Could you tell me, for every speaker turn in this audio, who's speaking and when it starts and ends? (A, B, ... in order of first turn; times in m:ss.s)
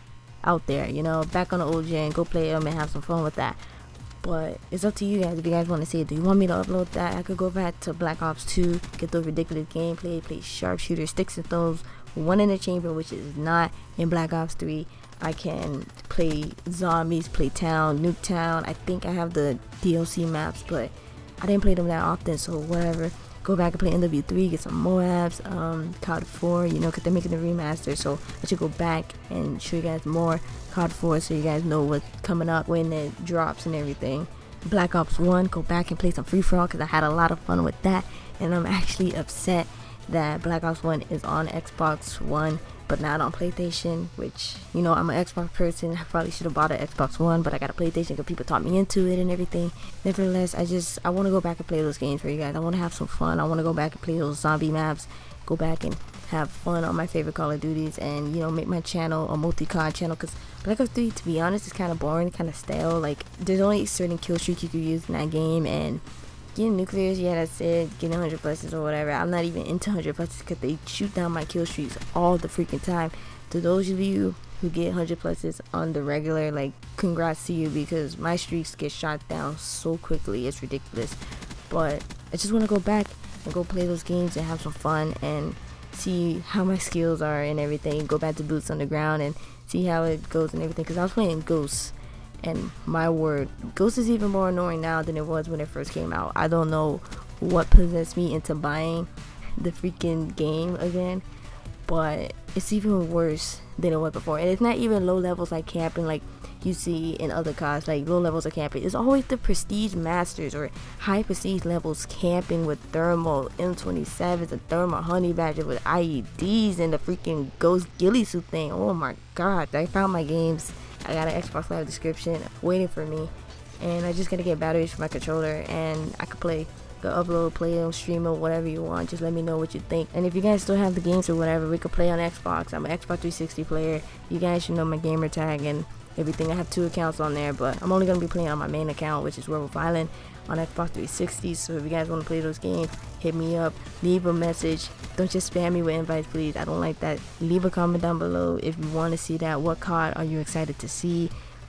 0:00.4-0:03.6 A
0:04.2-1:41.2 A
1:41.8-2:31.3 A